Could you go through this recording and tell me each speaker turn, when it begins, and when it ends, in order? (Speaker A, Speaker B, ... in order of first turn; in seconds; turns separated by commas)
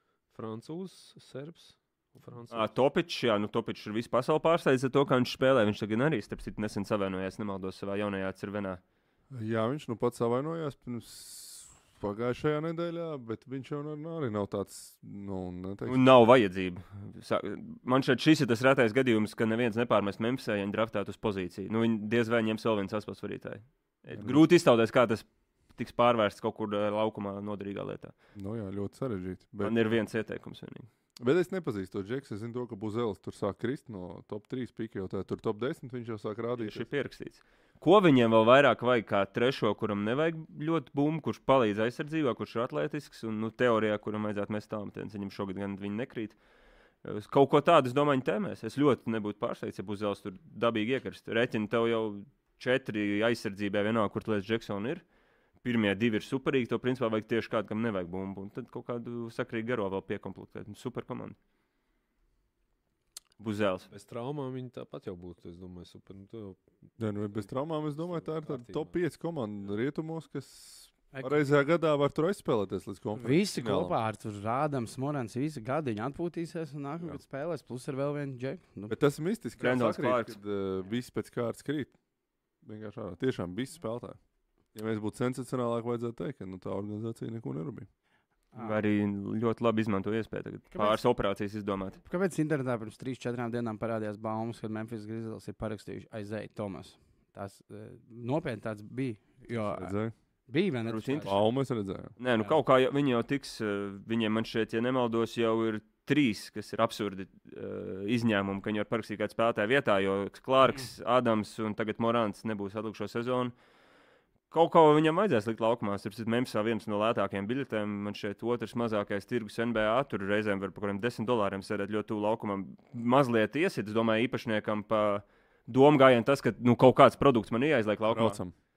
Speaker A: 0.3-2.7, Speaker B: 2.5-8.8, Speaker C: 9.3-16.0, Speaker B: 15.8-28.1, Speaker C: 24.1-24.4, Speaker C: 28.3-30.0, Speaker B: 29.6-30.9, Speaker C: 31.2-36.9, Speaker B: 36.5-46.4, Speaker B: 47.0-55.0, Speaker B: 55.6-61.4, Speaker B: 63.4-63.9, Speaker A: 63.9-66.6, Speaker C: 67.0-73.9, Speaker A: 68.0-69.0, Speaker D: 71.1-71.4, Speaker D: 73.2-79.0, Speaker C: 78.9-82.0, Speaker B: 79.6-80.3, Speaker C: 82.6-84.2, Speaker C: 84.7-87.9, Speaker B: 88.5-92.0, Speaker D: 90.7-91.0, Speaker D: 92.0-99.9, Speaker C: 99.6-100.1, Speaker D: 100.5-101.4, Speaker B: 100.8-101.4, Speaker C: 101.2-102.1, Speaker B: 102.2-113.5, Speaker B: 114.5-128.4, Speaker C: 128.1-128.5